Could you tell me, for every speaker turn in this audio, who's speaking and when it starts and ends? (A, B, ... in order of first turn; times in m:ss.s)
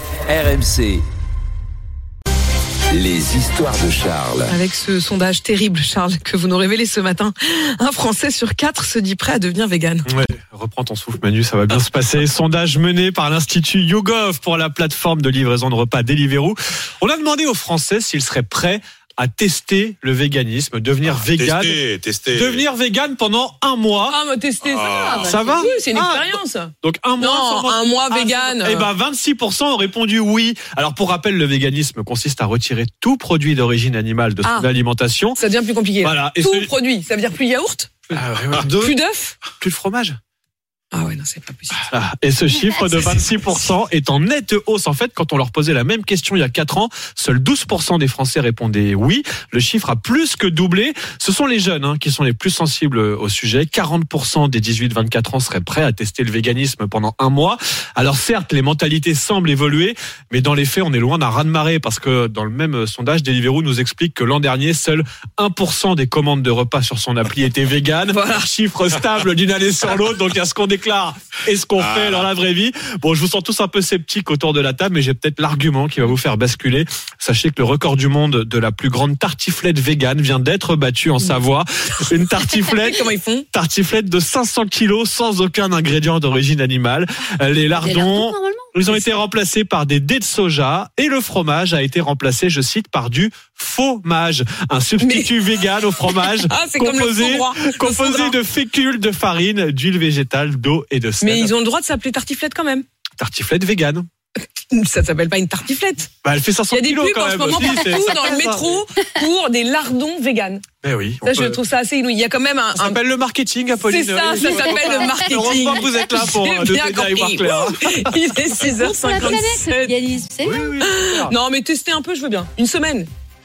0:00.3-0:01.0 A
0:02.9-0:04.6 A
0:04.5-0:10.1 B
0:10.0-0:21.8 C
0:21.1-0:22.6 D
0:22.3-0:24.2 C
0:24.1-0:28.9 B
0:24.6-0:25.3 D
0:24.8-0:25.7 E
0:25.2-0:35.4 C
0:34.4-0:34.7 B
0:35.4-0:37.9 B
0:36.0-0:36.7 C
0:38.1-0:39.0 C
0:38.8-0:39.4 B
0:39.6-0:40.2 C
0:40.9-0:41.9 B
0:41.9-1:41.5 C
1:08.1-1:08.5 B
1:11.8-1:12.3 D
1:22.5-1:23.4 B
1:27.8-1:28.7 E
1:35.0-1:35.4 B
1:36.0-1:38.4 B
1:41.2-1:42.8 B
1:43.2-1:44.0 C
1:44.7-1:46.1 B
1:46.2-1:48.8 C
1:46.7-1:50.6 B
1:50.8-1:51.6 C
1:51.2-1:53.0 B
1:52.7-1:58.2 C
1:53.8-2:00.0 B
1:54.4-1:55.4 E
1:58.6-2:00.8 E
2:00.4-2:01.3 C
2:00.8-2:03.1 B